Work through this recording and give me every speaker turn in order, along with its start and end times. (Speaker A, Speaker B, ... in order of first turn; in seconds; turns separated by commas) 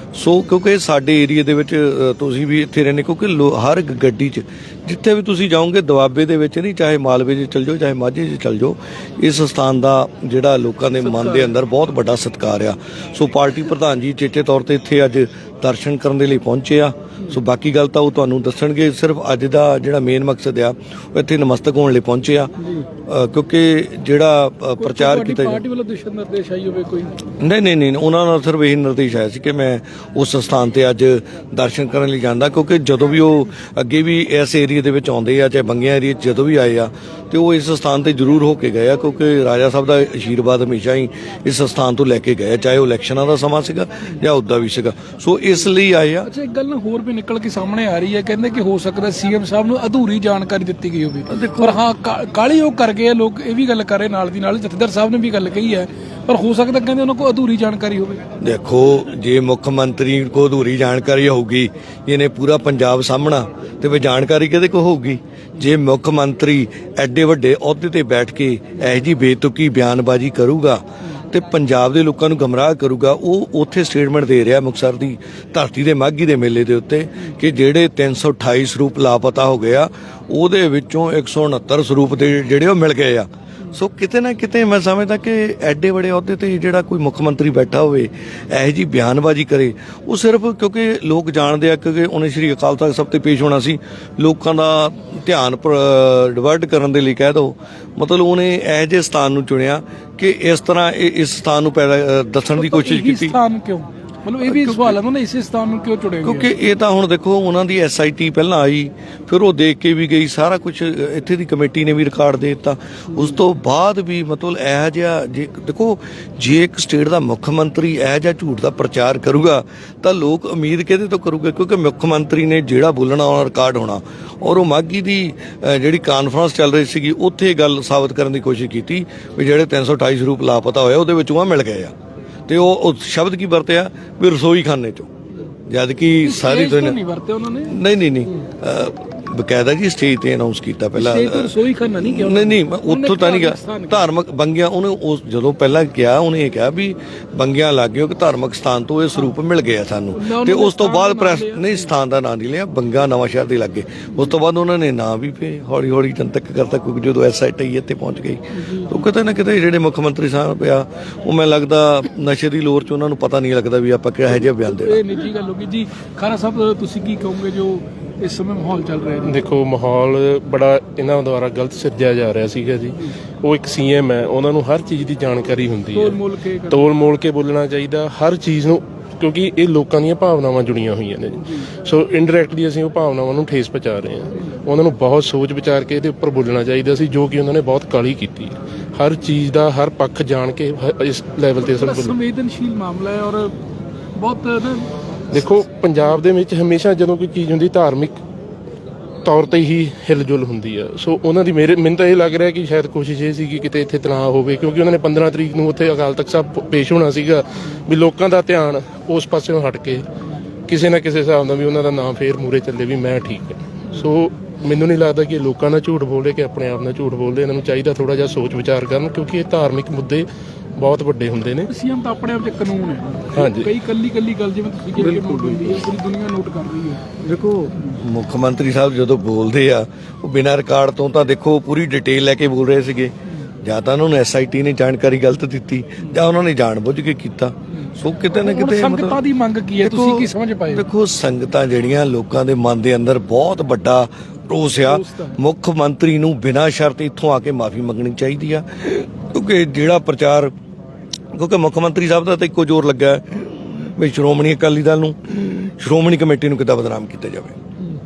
Speaker A: 0.1-22.5, Speaker B: 11.0-11.5, Speaker A: 23.1-25.6, Speaker B: 24.8-27.2, Speaker A: 27.4-46.3, Speaker B: 46.2-58.2, Speaker A: 51.3-51.8, Speaker A: 58.4-103.4, Speaker B: 102.6-106.5, Speaker A: 104.4-105.0, Speaker A: 106.2-131.9, Speaker A: 132.5-135.1, Speaker A: 135.7-137.0, Speaker B: 136.2-137.8, Speaker A: 137.7-165.0, Speaker B: 141.0-144.1, Speaker B: 150.1-151.9, Speaker B: 158.5-159.1, Speaker B: 164.7-169.3, Speaker C: 169.3-192.2, Speaker B: 175.9-176.9, Speaker B: 191.8-193.6, Speaker B: 194.2-195.4, Speaker C: 195.3-198.2, Speaker C: 199.2-210.1, Speaker C: 210.7-221.7, Speaker B: 221.7-227.1, Speaker C: 223.3-223.7, Speaker A: 227.2-239.2, Speaker B: 238.3-240.8, Speaker A: 239.8-250.5, Speaker B: 244.7-245.4, Speaker A: 251.3-257.6